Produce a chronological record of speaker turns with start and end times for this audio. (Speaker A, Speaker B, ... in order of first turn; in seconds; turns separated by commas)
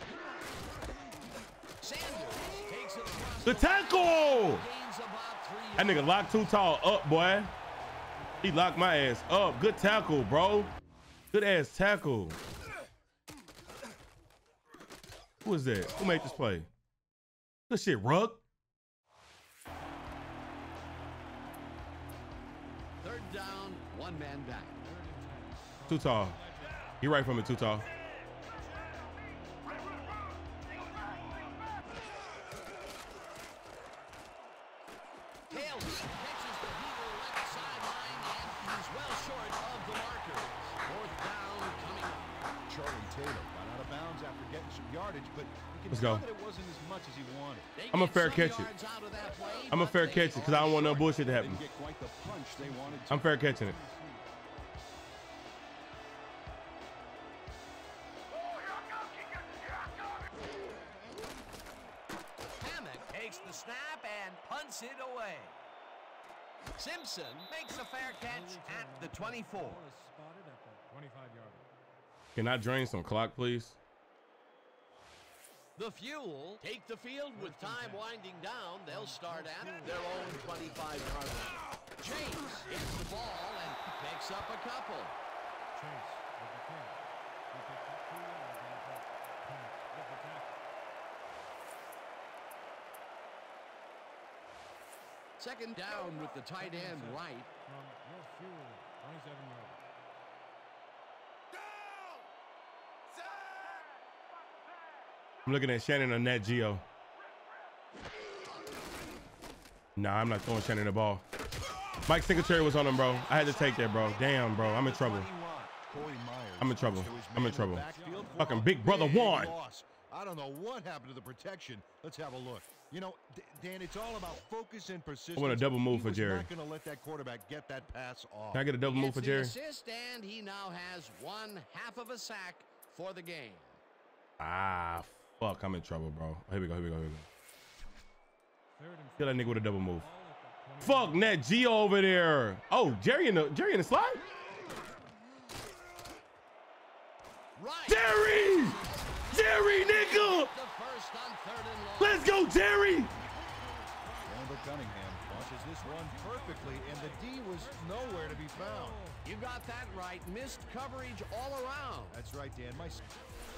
Speaker A: 1.8-6.6, Speaker B: 3.5-4.7, Speaker B: 5.8-7.5, Speaker C: 8.4-8.8, Speaker B: 8.4-10.7, Speaker B: 11.3-12.4, Speaker B: 15.4-16.7, Speaker B: 17.7-18.4, Speaker A: 23.0-24.8, Speaker C: 24.8-27.0, Speaker B: 25.9-26.4, Speaker B: 27.0-27.9, Speaker A: 35.5-42.5, Speaker D: 42.7-47.7, Speaker B: 45.9-46.2, Speaker A: 47.8-50.8, Speaker B: 47.9-48.7, Speaker B: 49.7-51.6, Speaker D: 50.3-53.5, Speaker C: 52.2-54.2, Speaker B: 53.1-53.8, Speaker A: 62.6-65.6, Speaker A: 66.8-69.8, Speaker C: 68.2-71.7, Speaker B: 72.4-73.8, Speaker A: 75.8-85.2, Speaker C: 77.3-78.1, Speaker C: 78.9-81.2, Speaker C: 85.8-90.6, Speaker A: 95.4-97.5, Speaker C: 96.4-99.8, Speaker B: 105.4-106.8, Speaker B: 110.0-111.2, Speaker B: 112.1-115.3, Speaker A: 112.2-115.7, Speaker D: 115.7-128.7, Speaker B: 116.6-119.5, Speaker C: 117.9-118.7, Speaker B: 125.4-126.5, Speaker B: 128.5-129.6, Speaker A: 128.8-133.8, Speaker B: 134.4-137.3, Speaker C: 138.8-141.4, Speaker B: 139.2-140.1, Speaker B: 140.8-144.2, Speaker A: 147.6-152.3, Speaker B: 147.9-150.5, Speaker B: 152.0-153.1, Speaker D: 154.2-159.0, Speaker C: 155.2-159.2, Speaker A: 159.2-162.2, Speaker D: 162.1-163.0